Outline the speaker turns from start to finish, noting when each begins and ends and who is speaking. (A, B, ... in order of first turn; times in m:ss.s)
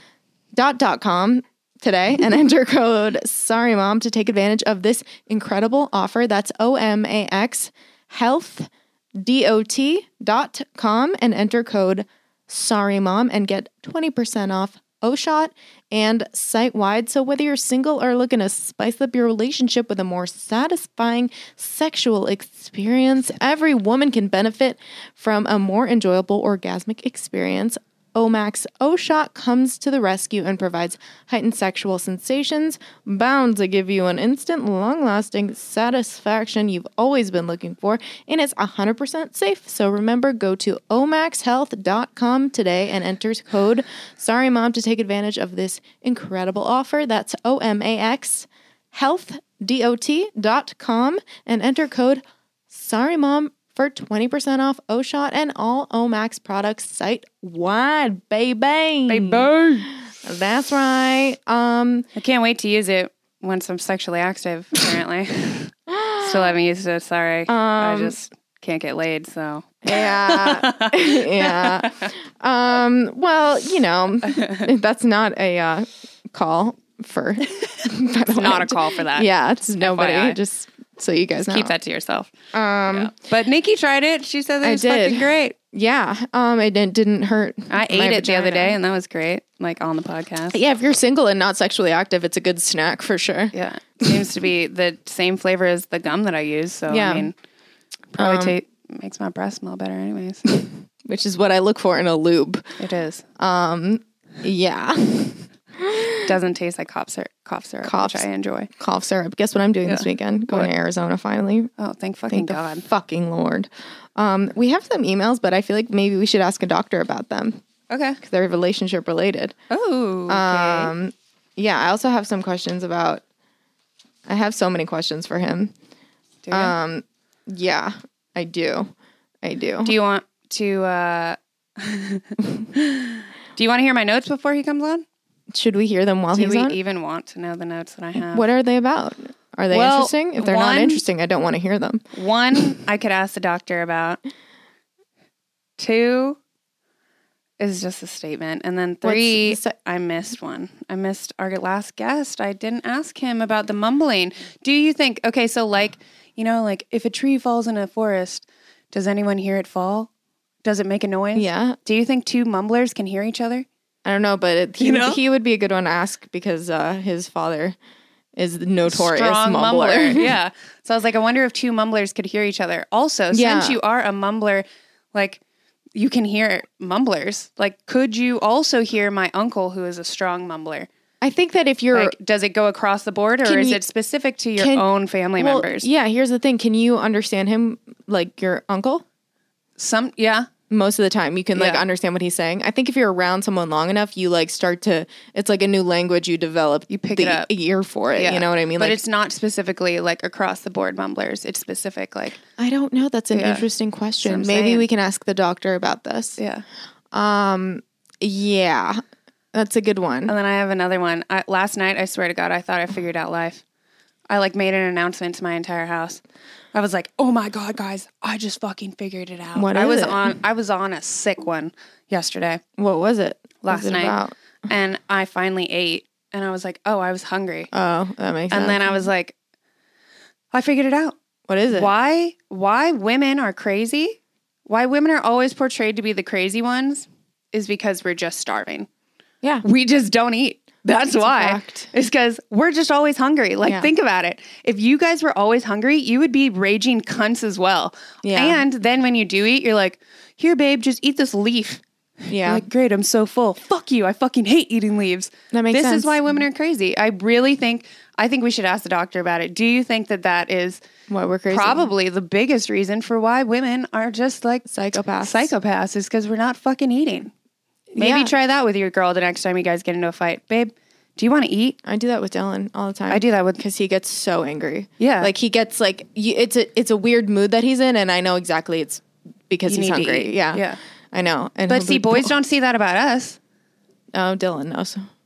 0:00.5-1:02.1 A
0:59.1-0:59.9 B
1:02.2-1:12.1 B
1:05.9-1:06.5 A
1:07.5-1:08.2 A
1:09.8-1:21.7 A
1:14.3-1:14.7 B
1:18.3-1:19.3 B
1:19.8-1:20.4 B
1:21.5-1:22.3 B
1:22.5-1:23.1 A
1:22.9-1:25.6 B
1:24.6-1:28.8 A
1:27.7-1:30.6 B
1:30.5-1:34.1 A
1:33.5-1:37.3 B
1:36.9-1:37.3 A
1:38.1-1:40.6 B
1:38.2-1:38.6 A
1:40.5-1:42.8 A
1:42.8-1:43.2 B
1:43.4-1:46.3 A
1:46.2-1:48.7 B
1:47.8-1:48.3 A
1:48.8-1:51.7 A
1:49.8-1:50.7 B
1:51.8-1:52.8 B
1:52.3-1:57.6 A
1:57.9-1:58.2 B
1:58.2-1:59.6 A
1:59.7-2:00.9 B
2:00.3-2:03.2 A
2:04.2-2:05.7 A
2:06.4-2:06.7 B
2:06.5-2:09.9 A
2:09.8-2:15.0 B
2:15.5-2:16.8 A
2:16.3-2:18.5 B
2:18.2-2:22.0 A
2:19.7-2:21.0 B
2:22.1-2:24.2 B
2:25.8-2:26.4 B
2:27.6-2:40.1 B
2:29.0-2:29.7 A
2:40.6-2:43.6 B
2:41.3-2:41.8 A
2:44.0-2:47.8 A
2:44.8-2:45.2 B
2:48.4-2:50.3 A
2:48.9-2:55.4 B
2:53.3-2:53.8 A
2:55.9-3:00.9 B
3:01.2-3:02.1 A
3:01.9-3:05.9 B
3:03.4-3:03.8 A
3:04.6-3:04.8 A
3:05.4-3:09.0 A
3:09.8-3:10.5 B
3:10.7-3:19.0 A
3:11.5-3:11.8 B
3:16.9-3:17.5 B
3:18.2-3:22.4 B
3:22.6-3:26.4 A
3:23.3-3:23.6 B
3:24.2-3:24.8 B
3:26.4-3:26.6 B
3:27.1-3:29.0 A
3:29.5-3:30.3 A
3:30.3-3:33.6 B
3:34.3-3:36.2 B
3:36.7-3:42.6 B
3:39.6-3:40.3 A
3:42.8-3:44.3 A
3:43.6-3:47.7 B
3:47.7-3:49.0 A
3:48.5-3:49.3 B
3:50.5-3:51.2 B
3:51.5-3:51.9 A
3:51.7-3:58.9 B
3:59.6-4:20.8 B
4:01.1-4:01.9 A
4:03.6-4:03.9 A
4:08.2-4:08.6 A
4:12.3-4:12.6 A
4:15.5-4:16.4 A
4:21.1-4:21.9 A
4:21.5-4:27.3 B
4:24.7-4:25.5 A
4:27.9-4:28.3 A
4:28.0-4:31.8 B
4:31.8-4:42.4 A
4:33.1-4:33.6 B
4:35.0-4:35.3 B
4:39.7-4:40.8 B
4:41.7-4:43.4 B
4:44.1-4:45.0 A